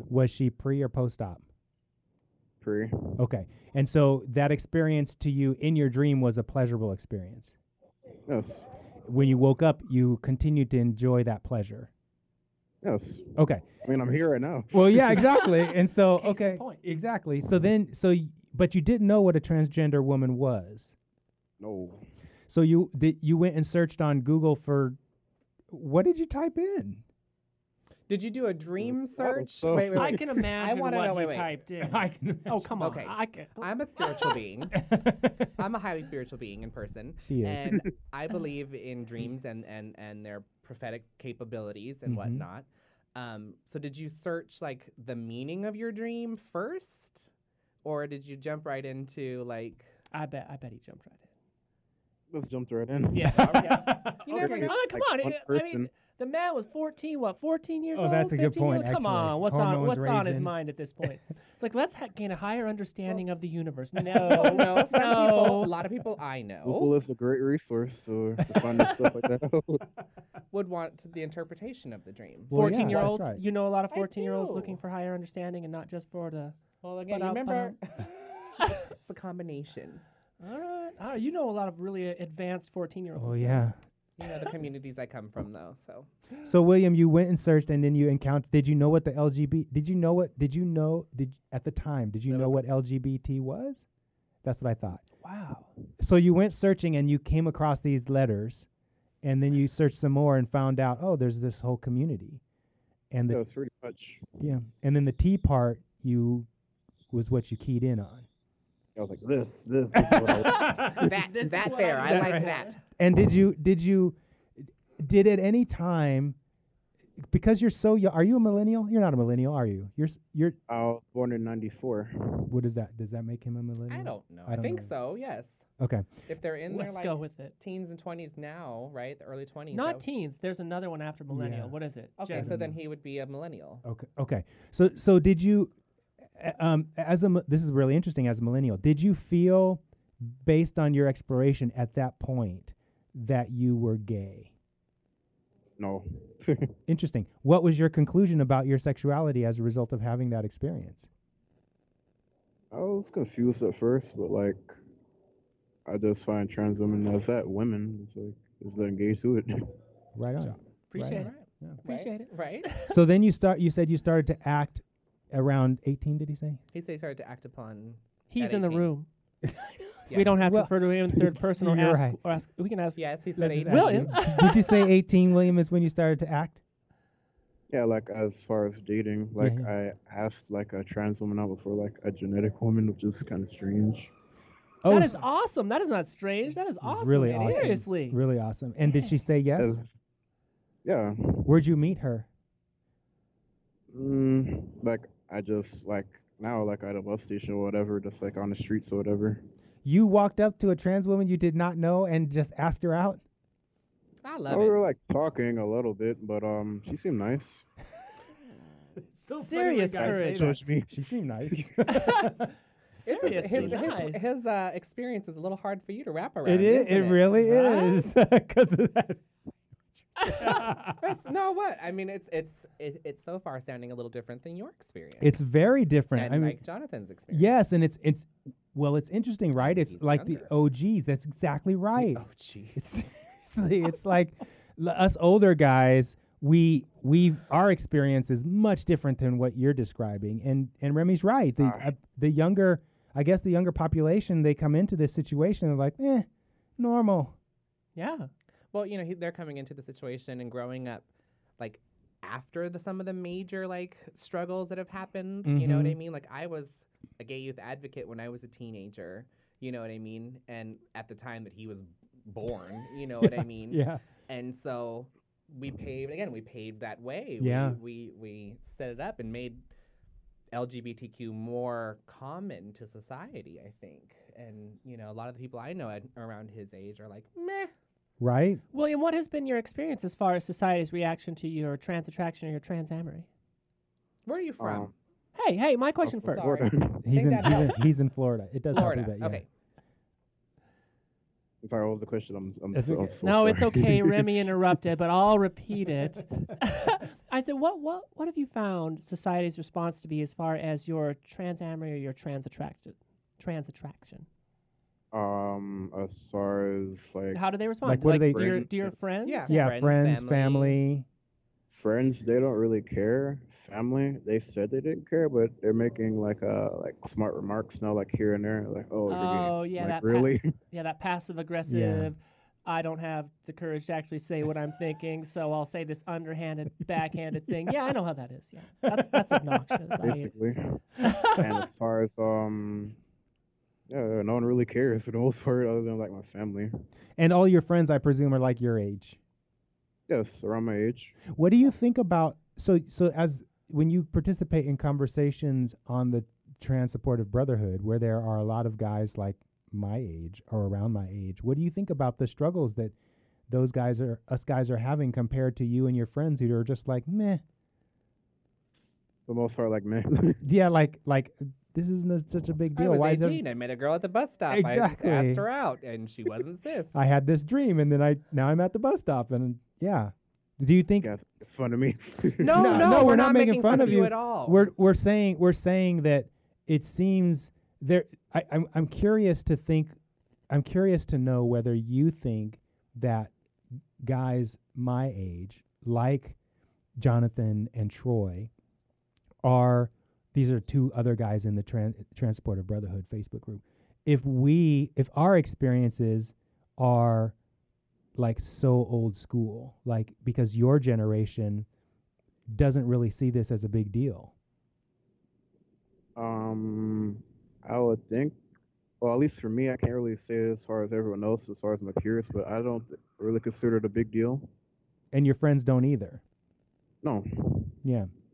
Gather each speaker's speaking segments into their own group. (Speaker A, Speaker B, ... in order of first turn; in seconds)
Speaker A: 0.1-1.4, 3.2-7.5, 9.1-11.9, 13.4-13.7, 14.7-20.9, 22.5-25.0, 25.7-27.0, 31.8-32.7, 34.7-35.5, 37.2-37.8, 42.0-42.4, 53.9-54.7, 57.9-60.5, 72.5-73.4, 83.2-83.8, 86.4-93.8, 94.4-95.0, 96.0-98.7, 99.2-102.4, 103.1-103.4, 104.4-106.5, 107.1-108.3, 109.9-111.1, 112.0-116.3, 117.2-120.5, 122.5-124.9, 125.8-126.1, 131.3-131.7, 132.3-132.8, 133.8-135.7, 136.3-144.5, 146.9-151.1, 160.1-161.8, 162.9-166.6, 169.4-172.2, 173.4-176.6, 179.4-179.7, 184.8-185.2, 186.8-189.8, 191.4-192.3, 199.8-203.2, 209.1-212.4, 216.4-219.2, 220.2-221.0, 225.2-226.6, 227.3-232.2, 232.7-246.3, 246.8-247.3, 255.4-256.0, 263.2-264.0, 267.4-267.8, 278.2-278.6, 287.0-289.4, 292.7-293.1, 307.8-308.6, 309.5-311.0, 321.7-322.1, 331.0-331.4, 337.2-339.2, 341.3-352.9, 353.5-357.4, 360.4-363.4, 364.5-365.4, 366.9-371.1, 372.5-379.9, 380.5-383.3, 384.0-386.4, 387.0-388.5, 389.4-397.3, 398.2-401.7, 402.5-404.3, 415.1-416.2, 417.8-418.1
Speaker B: 2.6-3.2, 8.3-8.7, 12.8-15.3, 21.6-22.0, 28.8-30.3, 52.3-53.8, 54.4-55.9, 66.6-69.8, 103.3-104.2, 109.0-110.8, 120.7-122.5, 145.8-146.7, 152.7-154.7, 155.8-159.7, 177.7-184.1, 189.6-189.9, 190.8-191.5, 193.9-199.4, 204.5-207.7, 210.2-211.7, 213.2-213.8, 241.6-241.9, 284.6-284.9, 286.0-287.0, 291.6-294.5, 305.1-307.4, 307.9-309.3, 311.7-320.5, 330.0-332.9, 333.9-336.7, 340.1-341.2, 359.3-360.4, 371.0-373.0, 406.1-408.4, 409.0-414.5, 417.0-417.8
Speaker C: 16.1-16.8, 29.9-34.4, 50.1-51.3, 53.1-65.7, 72.5-76.6, 77.1-77.8, 80.4-83.7, 95.2-95.7, 110.8-112.8, 126.7-127.5, 129.7-132.5, 160.9-161.3, 161.8-162.9, 168.3-169.1, 170.1-173.0, 173.7-174.9, 184.8-188.2, 209.3-210.6, 211.9-212.4, 212.9-214.2, 217.4-218.1, 247.9-248.3, 278.7-283.3, 285.3-286.6, 293.2-304.3, 307.3-309.6, 319.1-330.3, 331.0-331.4
Speaker D: 28.1-31.6, 32.8-34.9, 35.4-47.3, 47.8-49.9, 53.3-54.8, 63.1-63.4, 64.1-66.9, 70.5-73.1, 73.9-74.8, 76.8-80.0, 84.2-86.1, 92.3-92.6, 110.9-112.8, 123.9-125.7, 126.3-130.0, 132.2-133.8, 160.4-162.7, 166.7-168.9, 170.1-170.4, 172.9-174.2, 204.2-204.8, 213.1-217.4, 220.4-225.3, 226.1-227.5, 229.6-230.5, 231.9-232.8, 248.7-251.0, 251.6-269.6, 270.5-277.7, 284.2-284.9, 286.3-287.9, 288.7-289.5, 309.2-310.8, 362.8-367.0, 372.4-374.7